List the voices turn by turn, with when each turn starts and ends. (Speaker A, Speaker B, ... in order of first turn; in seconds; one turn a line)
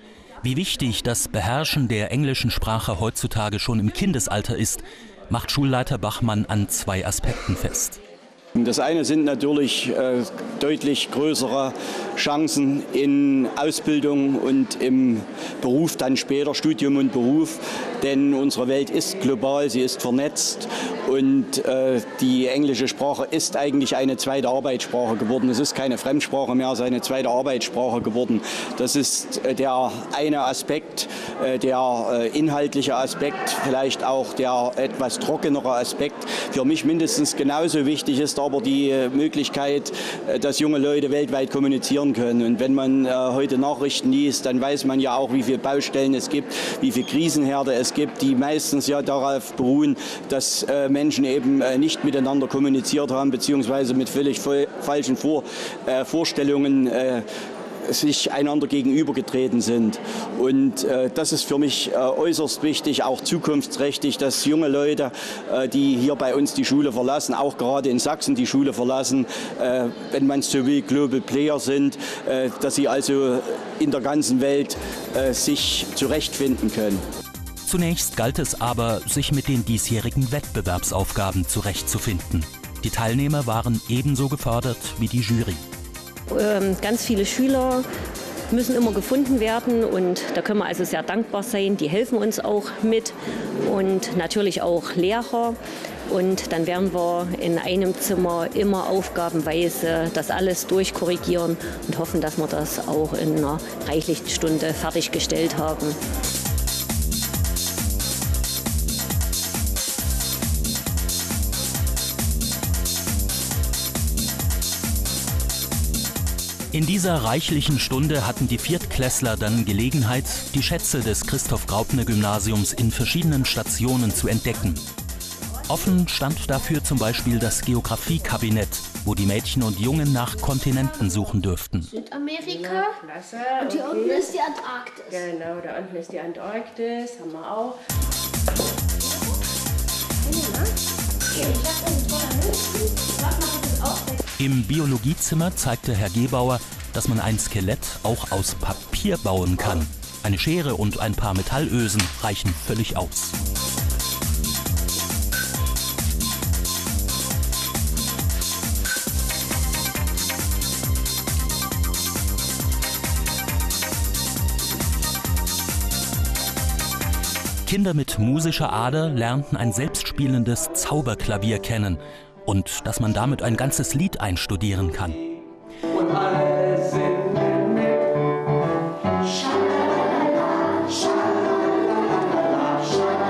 Speaker A: 0.4-8.0
Speaker B: 8.6-57.2
Speaker B: 57.8-77.0
Speaker A: 77.6-85.6
Speaker C: 86.3-87.8
Speaker C: 88.5-95.6
Speaker C: 96.1-106.0
Speaker A: 116.7-124.8
Speaker A: 125.7-131.9
Speaker D: 132.0-132.9
Speaker E: 132.4-134.4
Speaker D: 133.7-134.9
Speaker E: 135.1-137.8
Speaker A: 144.4-153.3
Speaker A: 167.6-175.2